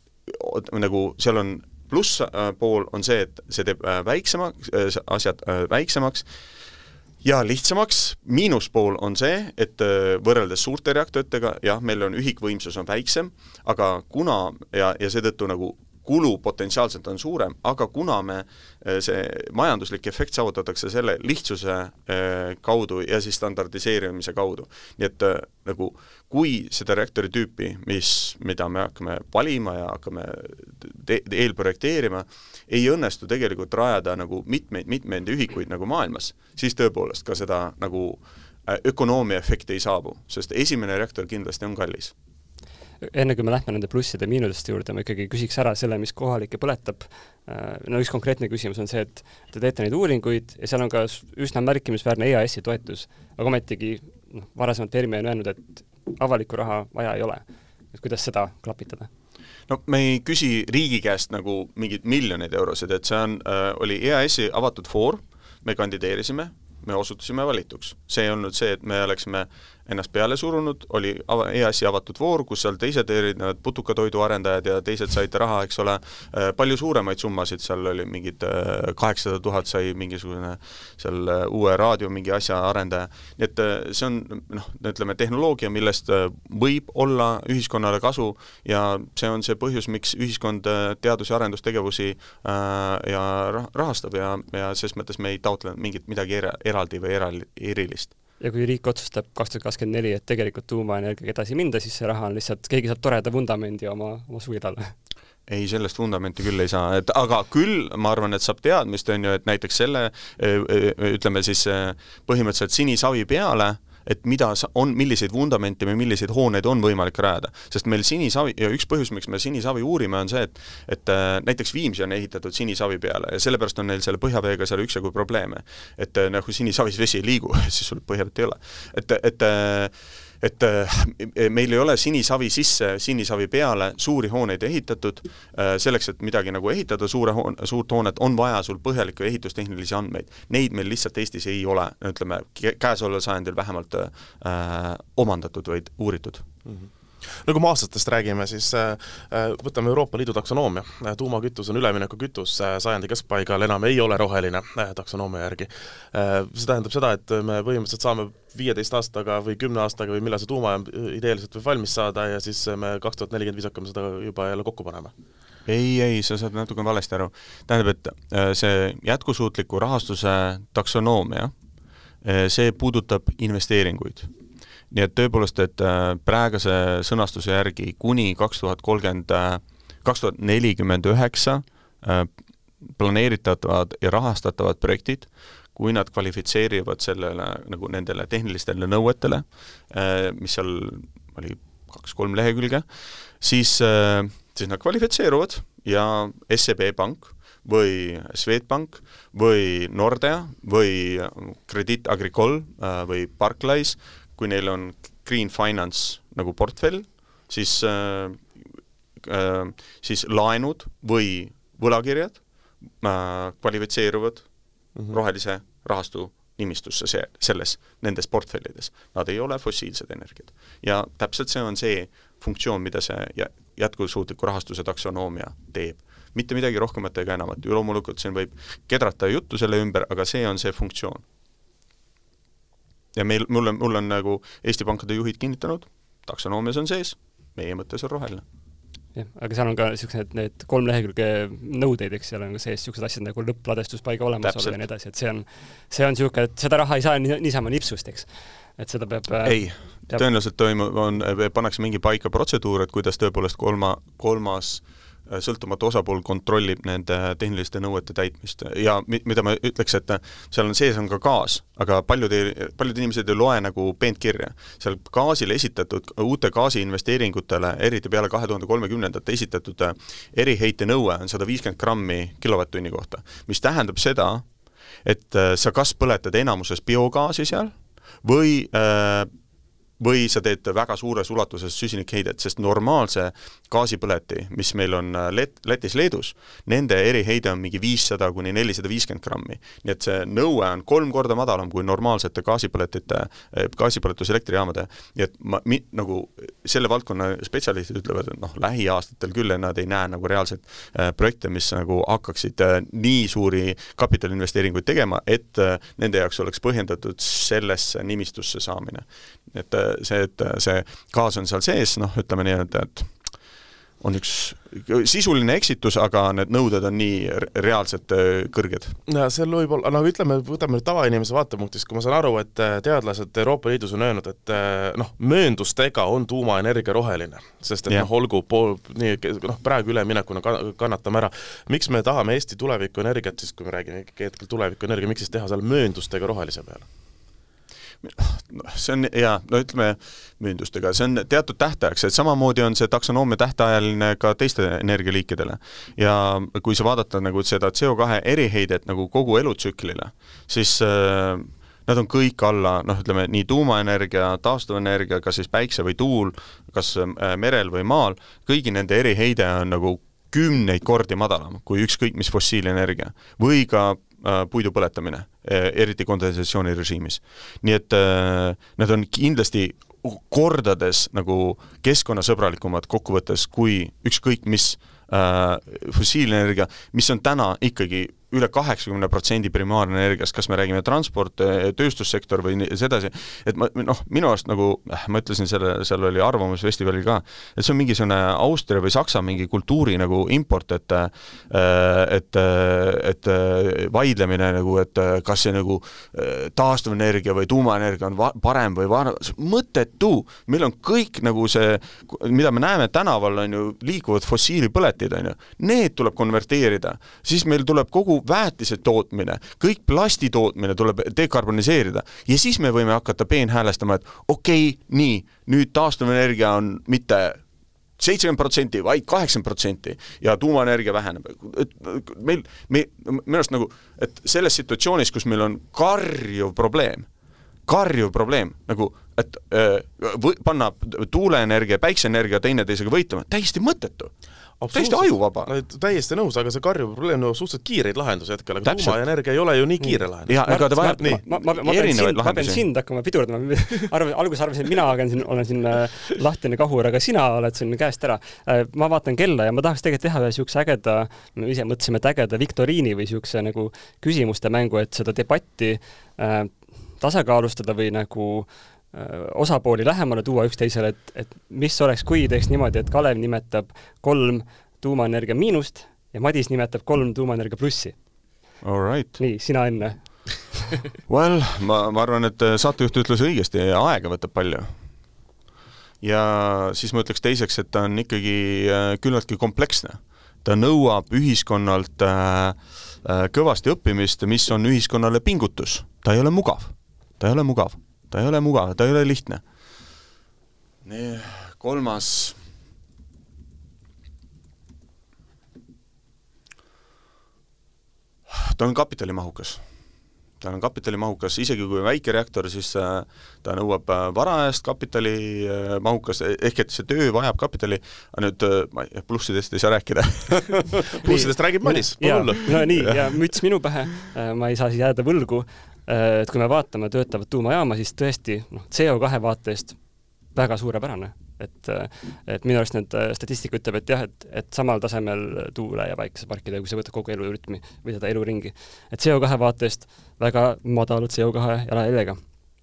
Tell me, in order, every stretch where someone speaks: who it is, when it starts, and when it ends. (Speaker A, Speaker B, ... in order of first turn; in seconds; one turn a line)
Speaker A: 0.3-6.3
Speaker A: 7.2-42.1
Speaker B: 43.0-59.1
Speaker A: 59.7-98.1
Speaker B: 98.4-105.0
Speaker A: 105.5-146.4
Speaker C: 147.4-165.1
Speaker A: 165.7-171.5
Speaker A: 172.2-174.3
Speaker A: 174.9-182.3
Speaker A: 182.8-192.8
Speaker A: 193.4-208.5
Speaker A: 209.2-212.4
Speaker A: 213.0-214.5
Speaker A: 215.1-231.2
Speaker A: 233.2-238.4
Speaker B: 239.2-250.2
Speaker A: 244.4-244.8
Speaker A: 249.4-274.5
Speaker A: 275.0-279.3
Speaker A: 280.0-313.1
Speaker A: 314.0-319.0
Speaker C: 319.1-336.9
Speaker A: 338.0-417.4
Speaker A: 418.0-427.1
Speaker A: 427.7-434.1
Speaker C: 434.6-441.2
Speaker A: 434.7-435.5
Speaker A: 438.6-439.0
Speaker B: 439.8-468.0
Speaker A: 440.3-442.6
Speaker A: 468.6-469.2
Speaker B: 469.2-470.7
Speaker A: 471.1-474.7
Speaker A: 476.0-489.4
Speaker A: 490.8-492.4
Speaker A: 498.3-499.6
Speaker A: 500.4-511.1
Speaker C: 510.9-513.1
Speaker B: 511.0-519.8
Speaker B: 520.3-532.2